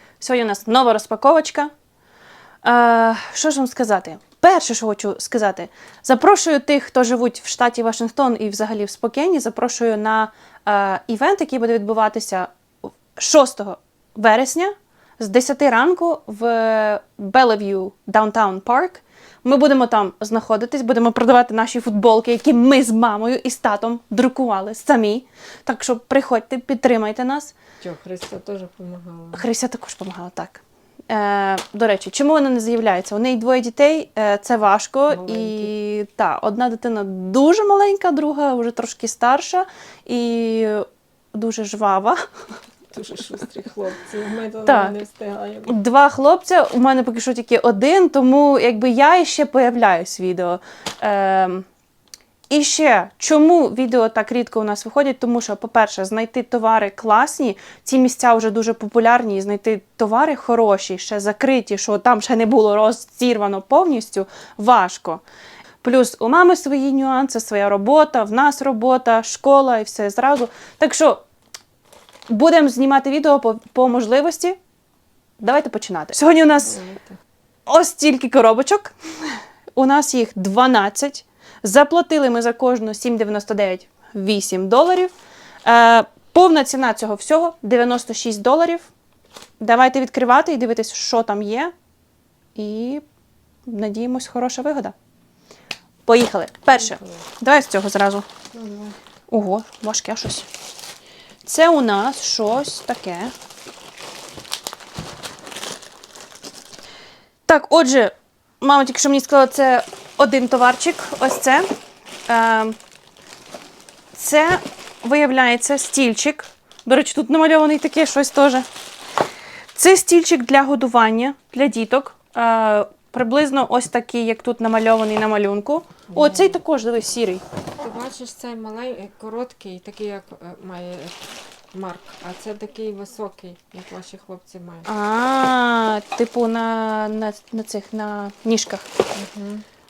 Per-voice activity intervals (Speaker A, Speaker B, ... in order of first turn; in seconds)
Speaker A: 0.2-1.7, 2.6-12.5, 13.1-27.5, 29.3-42.2, 44.6-44.9, 45.7-51.6, 52.5-65.2, 65.8-71.2, 72.3-74.6, 75.4-76.8, 77.7-85.1, 85.6-88.9, 89.6-91.7, 92.5-93.0, 93.7-94.9, 96.0-98.2, 99.3-100.5, 101.4-103.3, 107.5-111.7, 112.3-112.8, 114.1-118.7, 119.7-127.4, 134.9-138.8
Speaker B: 27.8-29.4, 35.1-35.7, 42.9-45.8, 76.6-77.2, 96.7-97.2, 98.5-99.0, 126.1-126.6, 127.8-131.2, 131.7-134.9, 139.1-139.6